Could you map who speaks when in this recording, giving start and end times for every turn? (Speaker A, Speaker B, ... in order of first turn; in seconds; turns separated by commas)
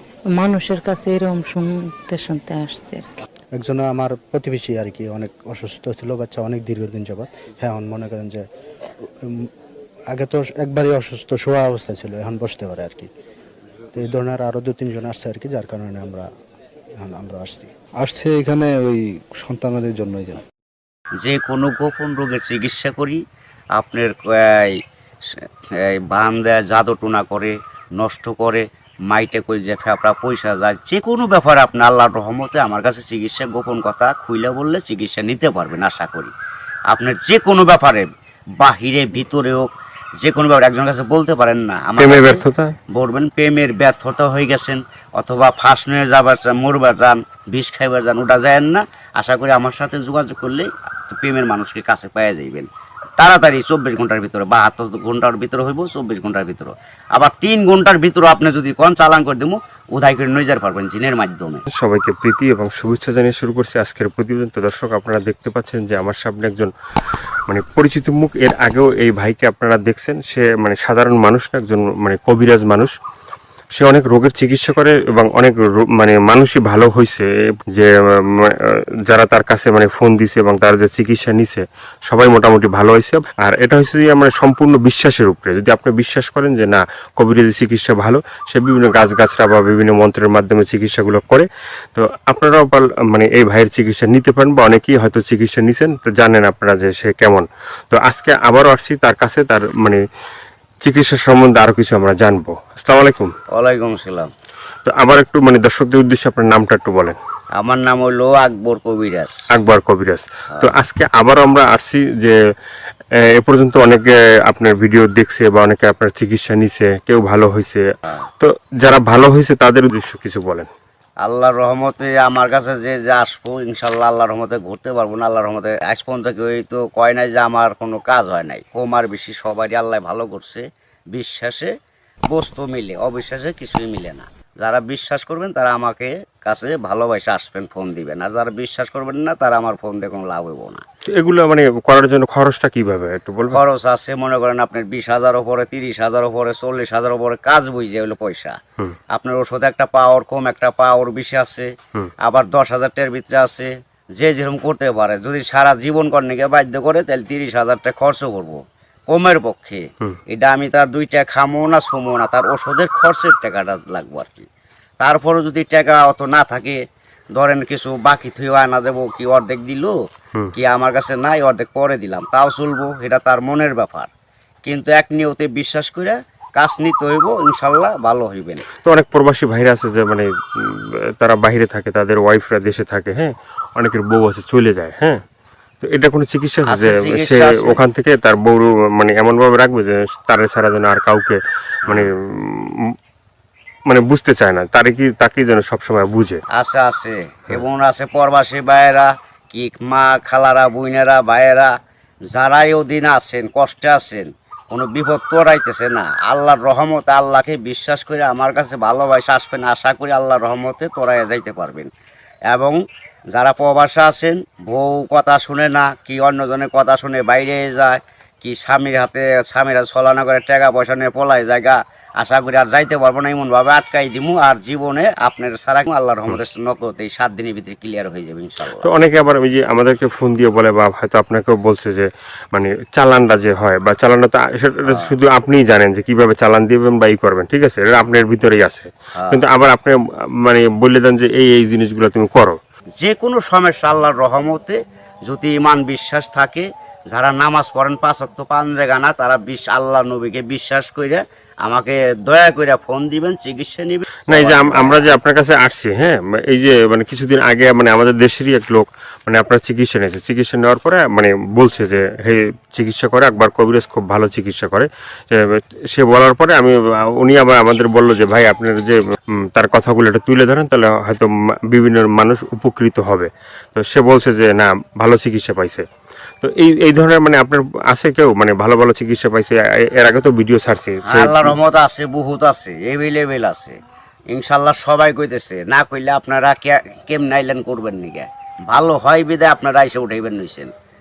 Speaker A: 0.4-3.1, Speaker B: 3.5-8.4, Speaker B: 10.1-13.1, Speaker B: 13.9-16.3, Speaker B: 17.0-17.9, Speaker C: 18.0-20.3, Speaker B: 19.5-20.4, Speaker D: 21.2-23.2, Speaker D: 23.8-24.8, Speaker D: 25.3-36.3, Speaker D: 36.9-38.1, Speaker D: 38.6-61.7, Speaker E: 42.0-42.8, Speaker E: 61.7-66.7, Speaker E: 67.5-72.9, Speaker E: 73.8-100.0, Speaker E: 100.8-103.3, Speaker D: 103.5-104.3, Speaker E: 104.8-107.2, Speaker D: 107.5-109.4, Speaker E: 109.5-112.4, Speaker E: 113.3-117.9, Speaker E: 118.4-120.7, Speaker D: 121.2-131.7, Speaker D: 132.3-140.8, Speaker E: 141.1-143.6, Speaker D: 143.5-148.6, Speaker D: 149.1-151.7, Speaker D: 152.2-158.6, Speaker D: 159.1-164.5, Speaker D: 165.0-166.8, Speaker D: 167.3-169.9, Speaker D: 170.5-174.1, Speaker D: 174.7-178.7, Speaker E: 178.8-185.2, Speaker E: 185.8-192.9, Speaker D: 186.7-187.8, Speaker E: 193.9-196.4, Speaker D: 196.5-201.7, Speaker D: 202.3-211.9, Speaker D: 212.5-212.8, Speaker D: 213.3-228.9, Speaker E: 228.8-242.6, Speaker D: 234.9-235.1, Speaker D: 239.2-239.4, Speaker D: 243.0-255.2, Speaker E: 254.3-269.0, Speaker E: 269.5-275.9, Speaker E: 276.4-281.6, Speaker D: 281.1-283.8, Speaker D: 284.3-290.7